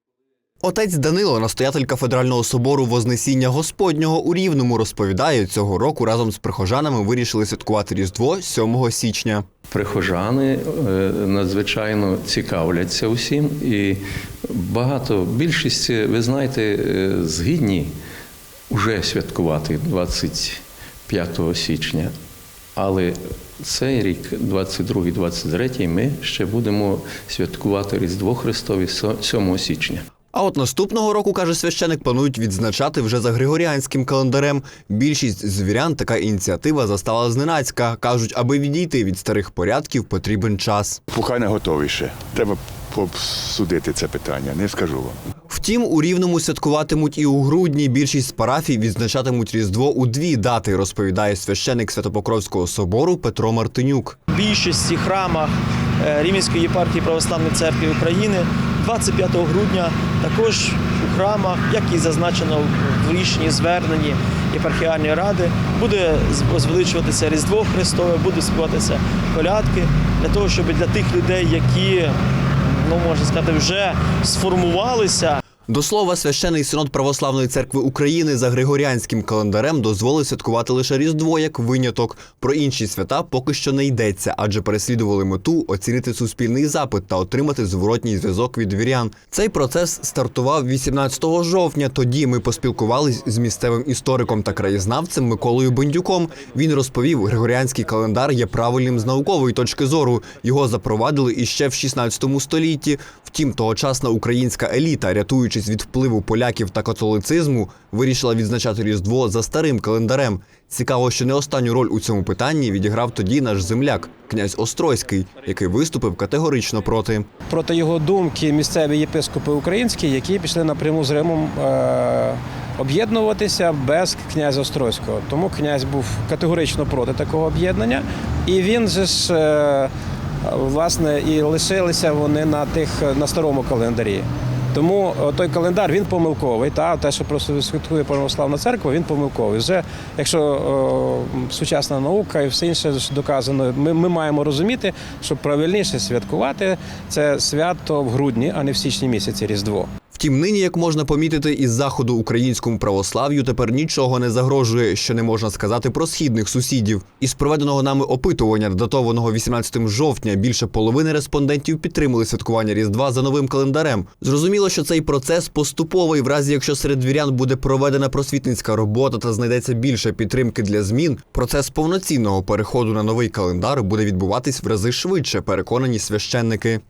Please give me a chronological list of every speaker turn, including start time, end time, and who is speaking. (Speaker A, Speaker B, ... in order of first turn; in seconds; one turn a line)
Speaker A: 0.6-9.4
Speaker B: 9.7-17.9
Speaker B: 18.7-22.1
Speaker B: 22.8-30.0
Speaker A: 30.3-41.0
Speaker C: 41.1-45.2
Speaker A: 45.5-54.1
Speaker D: 54.3-75.4
Speaker A: 75.7-117.2
Speaker E: 117.5-129.9
Speaker E: 130.4-149.9
Speaker A: 150.1-176.8